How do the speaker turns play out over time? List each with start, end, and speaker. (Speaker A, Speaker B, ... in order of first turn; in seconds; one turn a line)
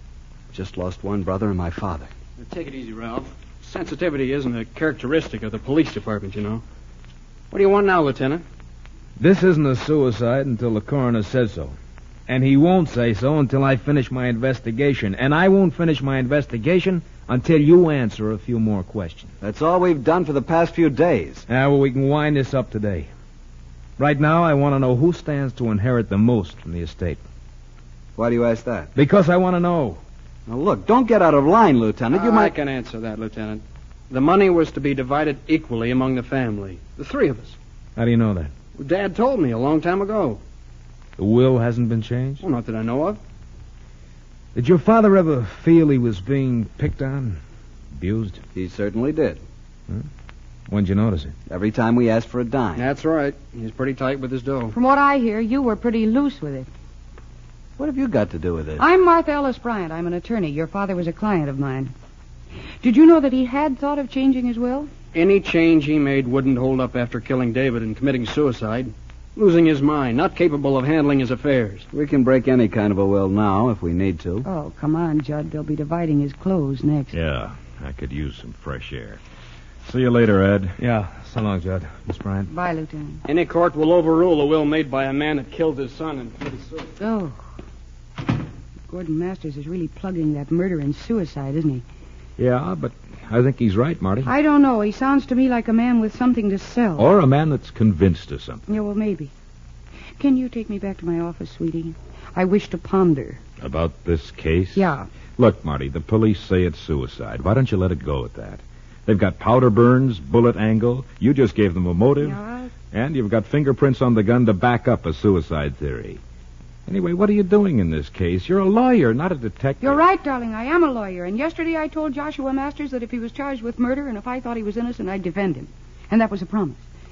Speaker A: 0.5-2.1
Speaker B: 2.4-6.6
Speaker B: 7.5-8.4
Speaker C: 9.2-11.8
Speaker C: 12.3-19.3
Speaker A: 19.4-21.5
Speaker C: 21.5-23.1
Speaker C: 24.0-27.2
Speaker A: 28.2-28.9
Speaker C: 28.9-30.0
Speaker A: 30.5-32.5
Speaker B: 32.1-37.6
Speaker C: 38.0-38.5
Speaker B: 38.8-40.4
Speaker C: 41.2-42.4
Speaker B: 42.4-43.2
Speaker C: 44.5-47.4
Speaker C: 47.9-48.4
Speaker A: 48.5-49.4
Speaker C: 50.7-51.4
Speaker A: 51.5-52.9
Speaker B: 52.8-54.8
Speaker D: 54.7-56.7
Speaker A: 57.8-58.8
Speaker D: 58.8-61.9
Speaker D: 62.8-64.9
Speaker B: 65.1-71.9
Speaker A: 71.9-74.5
Speaker D: 74.5-77.2
Speaker E: 77.1-79.2
Speaker E: 79.8-80.8
Speaker C: 80.8-82.5
Speaker D: 82.5-83.2
Speaker B: 83.3-86.9
Speaker D: 87.0-87.4
Speaker D: 88.9-91.8
Speaker E: 92.4-94.3
Speaker D: 94.3-97.1
Speaker E: 97.0-98.7
Speaker D: 98.7-99.3
Speaker D: 100.2-103.4
Speaker E: 103.6-112.4
Speaker D: 104.8-105.1
Speaker D: 112.2-112.7
Speaker E: 112.9-116.2
Speaker E: 116.9-120.0
Speaker D: 119.8-126.8